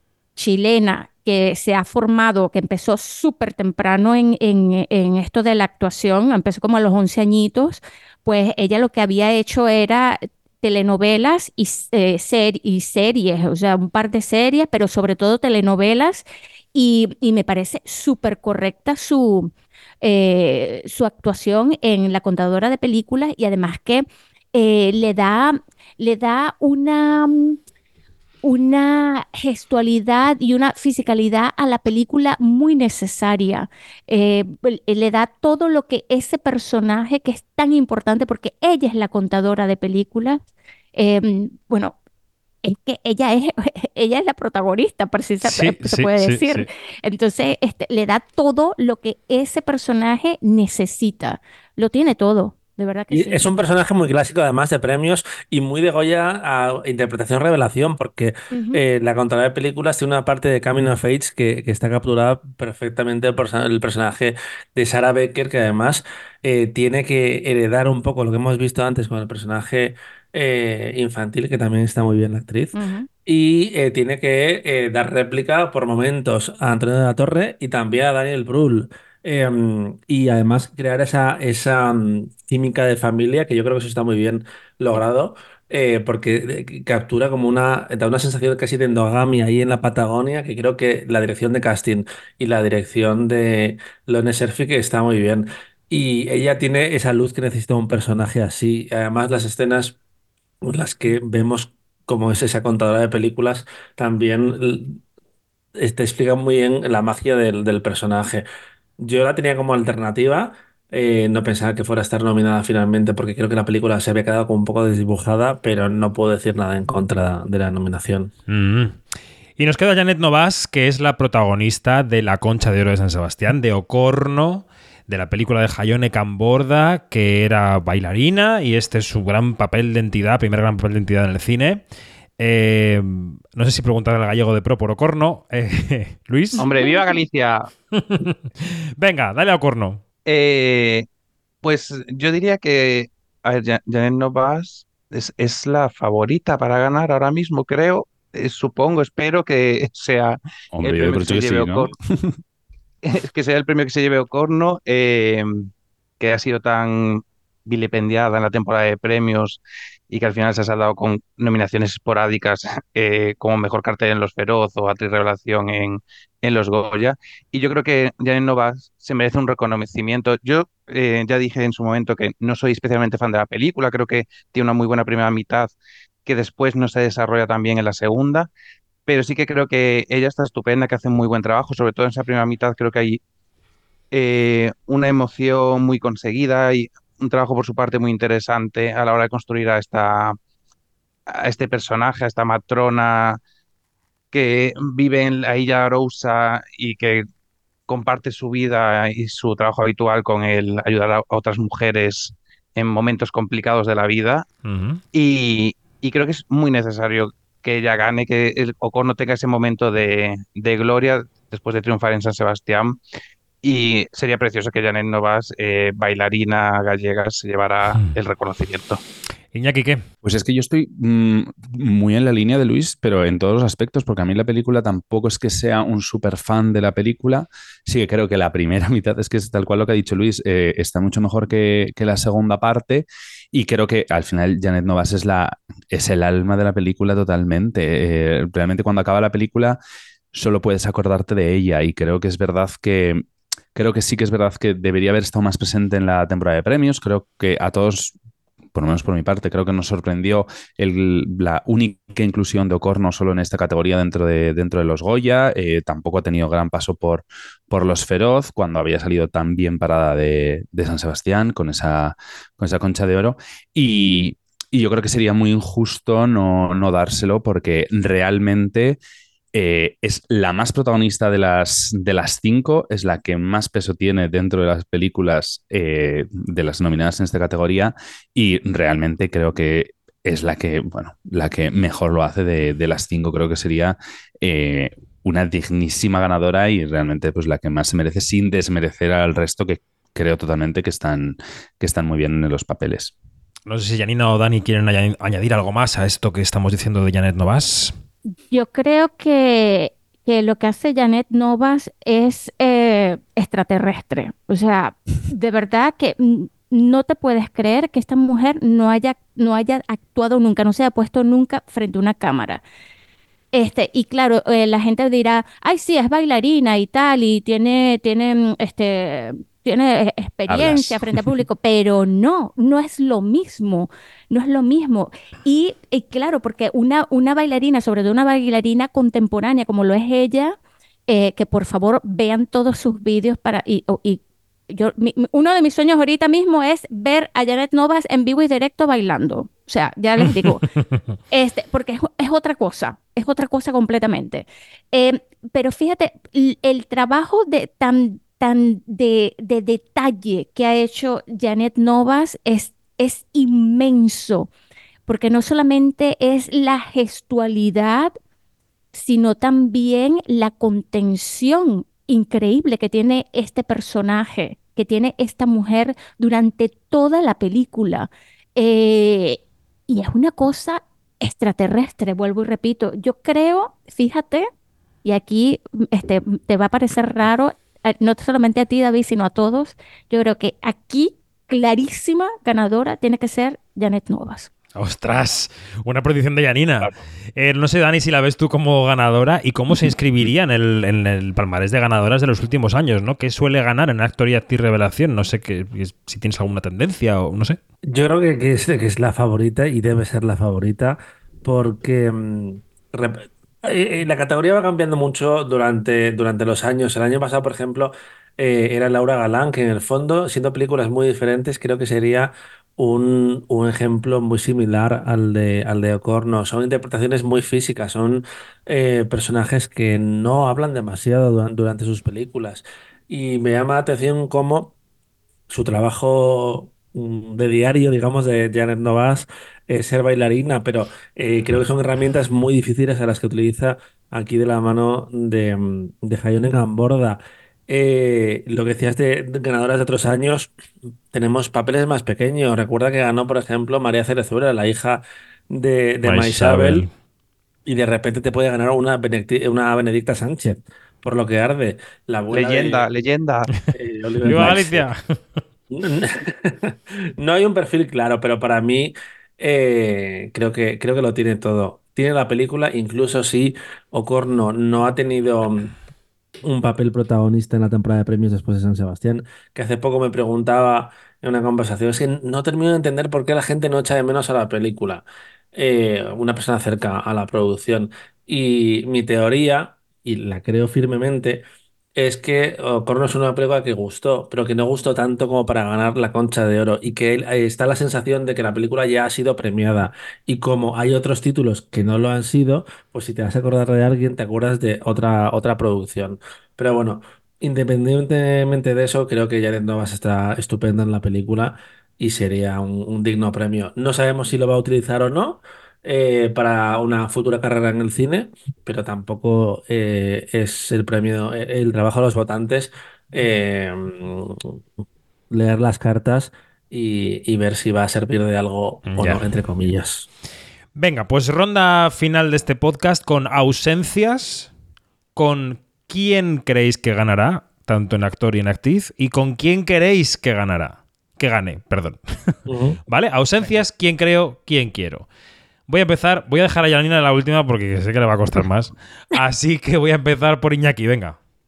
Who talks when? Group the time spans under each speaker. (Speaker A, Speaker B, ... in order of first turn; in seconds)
Speaker A: 0.4-19.5, 20.0-27.6, 28.4-40.4, 41.0-42.0, 42.6-53.5, 58.5-58.8, 72.7-73.1, 136.8-137.1, 298.5-312.6, 313.5-330.6, 331.1-340.7, 341.3-354.5, 355.1-358.1, 358.9-374.5, 375.0-384.5
Speaker B: 45.4-46.7, 118.5-119.0, 119.6-131.8, 132.4-136.6, 137.9-140.0, 204.7-205.0, 219.5-220.0, 293.7-297.9, 384.8-397.6, 446.0-446.9, 454.2-455.4, 518.9-519.2, 520.8-524.5, 525.2-532.3, 532.9-535.1, 535.7-541.2
Speaker C: 53.1-100.0, 100.6-105.0, 105.8-108.5, 109.0-118.3, 397.9-424.8, 425.5-440.5, 441.1-446.9, 447.6-452.9, 453.7-454.9, 455.7-465.7, 466.4-481.4, 482.0-514.6, 515.3-520.1, 532.5-532.8
Speaker D: 136.6-137.7, 140.3-141.1, 141.6-151.9, 153.0-155.7, 156.2-175.7, 176.3-178.5, 179.1-183.2, 184.1-190.4, 191.3-193.4, 194.3-197.2, 197.9-204.5, 205.1-213.0, 213.6-219.0, 452.3-453.5
Speaker E: 150.7-152.3, 220.2-239.8, 240.3-248.2, 248.7-269.0, 269.5-293.1, 320.5-321.0